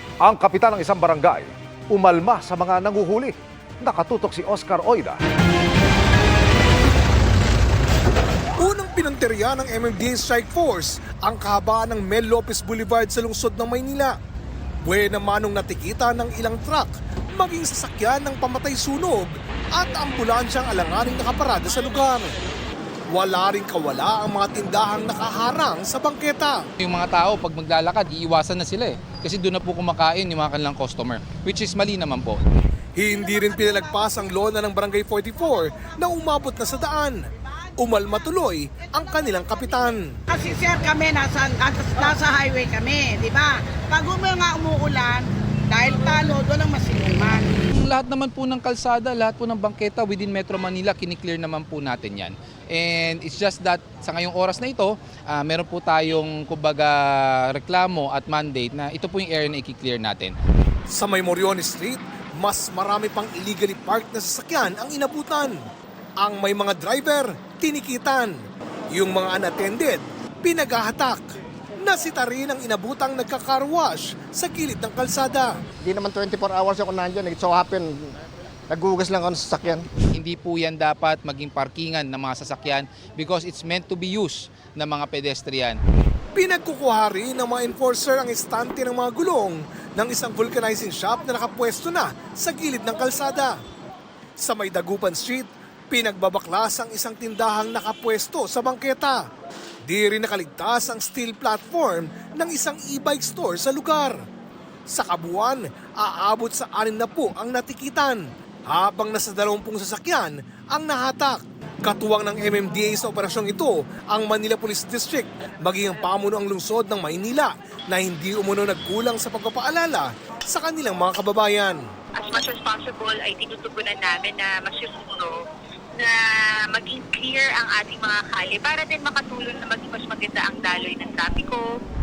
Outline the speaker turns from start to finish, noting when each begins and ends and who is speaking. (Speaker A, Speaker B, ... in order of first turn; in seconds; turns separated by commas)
Speaker A: 0.2-5.2, Speaker B: 8.6-14.2, Speaker B: 14.8-22.3, Speaker B: 23.1-26.6, Speaker C: 26.8-32.4, Speaker B: 33.0-37.2, Speaker B: 37.8-40.1, Speaker D: 40.3-47.6, Speaker C: 47.7-60.4, Speaker B: 60.9-65.6, Speaker B: 66.2-68.4, Speaker B: 68.9-71.3, Speaker B: 71.8-75.6, Speaker E: 75.8-78.2, Speaker E: 78.7-79.9, Speaker C: 80.1-85.8, Speaker B: 86.3-93.6, Speaker B: 94.4-99.2, Speaker B: 99.9-104.2, Speaker B: 104.9-121.8, Speaker F: 122.2-125.4, Speaker F: 126.0-131.7